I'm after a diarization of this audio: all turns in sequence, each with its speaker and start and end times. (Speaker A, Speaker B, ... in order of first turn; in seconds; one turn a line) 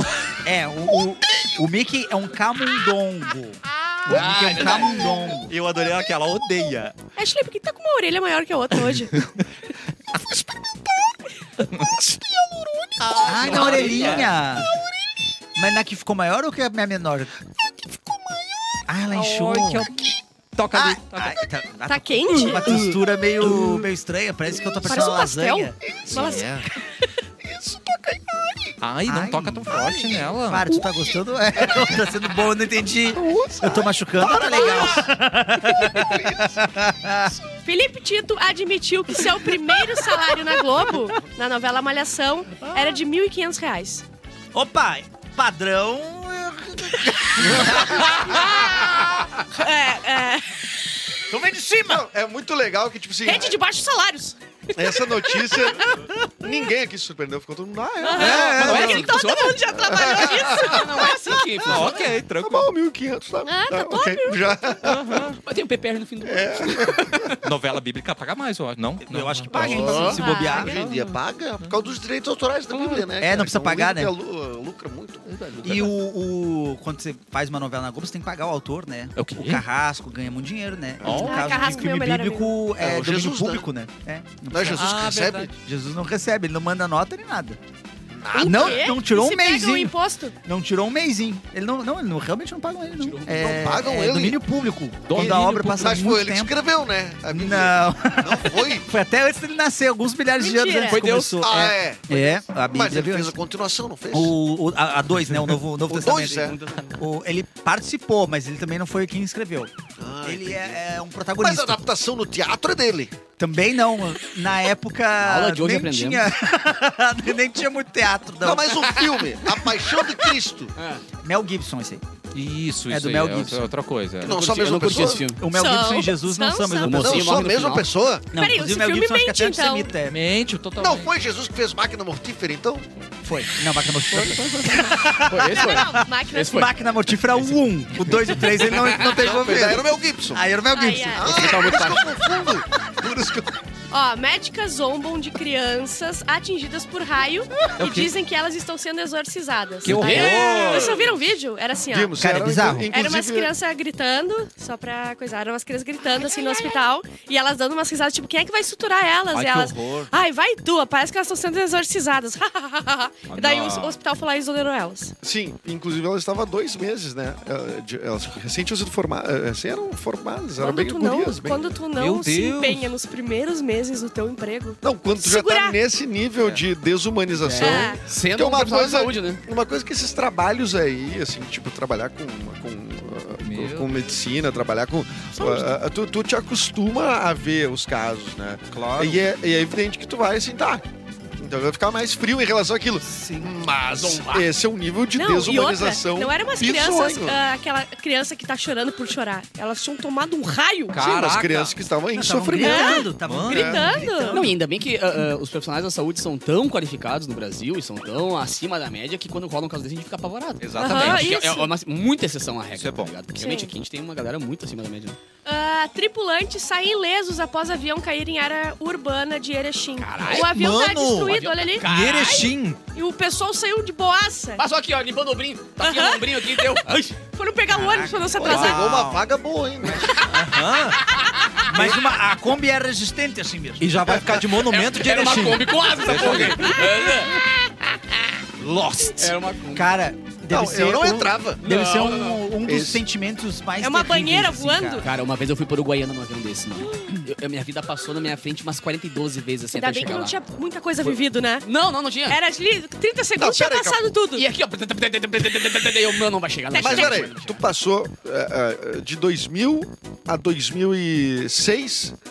Speaker A: 0.4-5.5
Speaker B: 4.0-6.9
Speaker C: 4.1-5.1
Speaker D: 7.2-9.2
Speaker B: 9.1-9.4
Speaker B: 11.6-12.1
Speaker E: 12.1-12.9
Speaker B: 13.0-14.5
Speaker A: 13.2-14.7
Speaker C: 13.5-14.2
Speaker A: 15.6-17.3
Speaker A: 18.9-19.9
Speaker B: 19.1-21.4
Speaker A: 20.7-25.8
Speaker D: 21.9-22.7
Speaker D: 24.8-27.1
Speaker E: 25.9-26.6
Speaker B: 26.1-26.6
Speaker E: 27.4-28.8
Speaker B: 28.8-30.7
Speaker A: 29.1-37.4
Speaker E: 30.7-31.0
Speaker E: 31.6-32.0
Speaker E: 33.1-35.1
Speaker D: 34.4-34.9
Speaker E: 35.7-36.7
Speaker D: 37.6-44.0
Speaker A: 42.6-43.0
Speaker A: 44.5-48.5
Speaker E: 47.4-48.2
Speaker D: 47.5-48.8
Speaker D: 49.5-50.6
Speaker A: 51.3-52.1
Speaker E: 51.9-53.6
Speaker D: 53.2-56.0
Speaker E: 54.7-59.0
Speaker D: 58.0-61.5
Speaker A: 58.1-59.1
Speaker C: 58.3-62.0
Speaker E: 59.7-65.3
Speaker B: 61.6-62.7
Speaker D: 63.5-64.6
Speaker B: 64.8-65.4
Speaker C: 65.4-67.4
Speaker E: 66.2-67.3
Speaker B: 67.4-70.0
Speaker A: 69.0-70.9
Speaker D: 69.5-70.8
Speaker E: 69.6-75.4
Speaker C: 69.7-70.2
Speaker B: 70.8-71.7
Speaker A: 73.2-74.1
Speaker B: 75.3-76.0
Speaker A: 75.6-87.6
Speaker B: 79.2-79.6
Speaker E: 81.0-81.5
Speaker B: 81.0-81.7
Speaker D: 81.1-82.6
Speaker E: 82.8-83.7
Speaker E: 84.5-85.5
Speaker B: 84.7-85.5
Speaker E: 88.1-88.9
Speaker D: 88.3-90.3
Speaker A: 88.4-96.5
Speaker C: 92.9-93.6
Speaker E: 93.3-94.4
Speaker C: 95.1-95.5
Speaker E: 95.1-98.9
Speaker A: 97.3-103.3
Speaker D: 100.4-101.0
Speaker C: 100.9-101.4
Speaker E: 101.4-104.3
Speaker A: 104.1-109.7
Speaker E: 105.9-106.6
Speaker C: 106.0-107.0
Speaker E: 110.0-110.8
Speaker A: 110.2-111.8
Speaker E: 111.4-113.1
Speaker A: 113.4-118.9
Speaker C: 115.2-116.2
Speaker E: 118.4-120.7
Speaker C: 120.8-121.0
Speaker A: 121.2-122.2
Speaker B: 122.3-124.3
Speaker A: 122.9-123.7
Speaker E: 124.2-125.3
Speaker C: 124.2-125.4
Speaker A: 125.3-127.4
Speaker D: 125.5-127.0
Speaker C: 126.8-127.9
Speaker E: 126.9-128.3
Speaker A: 128.3-130.2
Speaker D: 128.3-129.9
Speaker B: 130.1-131.1
Speaker E: 130.8-132.9
Speaker A: 133.2-143.1
Speaker C: 134.1-136.7
Speaker D: 135.5-136.7
Speaker C: 137.2-139.6
Speaker E: 139.1-140.5
Speaker D: 140.7-141.4
Speaker E: 141.1-143.5
Speaker C: 141.2-142.1
Speaker D: 143.9-152.2
Speaker B: 147.8-148.1
Speaker B: 149.8-151.0
Speaker C: 149.8-150.9
Speaker E: 151.9-153.5
Speaker A: 152.2-152.9
Speaker D: 152.9-165.1
Speaker B: 159.3-160.1
Speaker B: 163.3-164.0
Speaker E: 165.2-171.8
Speaker D: 170.6-175.8
Speaker B: 171.9-172.9
Speaker E: 174.8-190.8
Speaker B: 176.4-176.6
Speaker C: 177.4-179.4
Speaker D: 177.5-178.0
Speaker B: 183.4-184.1
Speaker B: 188.7-189.2
Speaker E: 191.4-197.4
Speaker A: 193.1-193.5
Speaker C: 193.8-194.5
Speaker D: 195.1-201.0
Speaker B: 200.9-201.8
Speaker E: 200.9-203.1
Speaker A: 202.1-204.6
Speaker D: 202.6-204.4
Speaker B: 203.2-203.8
Speaker C: 204.3-215.2
Speaker B: 210.6-211.4
Speaker D: 210.8-211.7
Speaker B: 212.7-213.1
Speaker D: 213.4-213.7
Speaker D: 215.4-221.9
Speaker C: 220.0-220.5
Speaker B: 220.3-222.8
Speaker C: 221.2-222.5
Speaker D: 222.9-224.6
Speaker C: 224.6-227.2
Speaker D: 225.8-226.7
Speaker D: 227.3-228.9
Speaker A: 227.7-228.4
Speaker E: 228.3-230.3
Speaker B: 228.4-229.2
Speaker B: 230.3-231.1
Speaker A: 231.7-233.9
Speaker B: 233.8-236.9
Speaker C: 234.8-237.4
Speaker D: 236.1-236.8
Speaker B: 238.6-239.2
Speaker C: 239.2-240.0
Speaker A: 239.7-245.1
Speaker E: 240.5-241.6
Speaker C: 241.6-242.5
Speaker E: 242.7-243.0
Speaker D: 243.8-245.1
Speaker C: 245.0-250.3
Speaker D: 249.7-251.7
Speaker C: 251.0-252.4
Speaker D: 252.3-254.4
Speaker E: 253.4-254.0
Speaker C: 254.3-257.6
Speaker D: 256.7-257.3
Speaker E: 256.7-262.1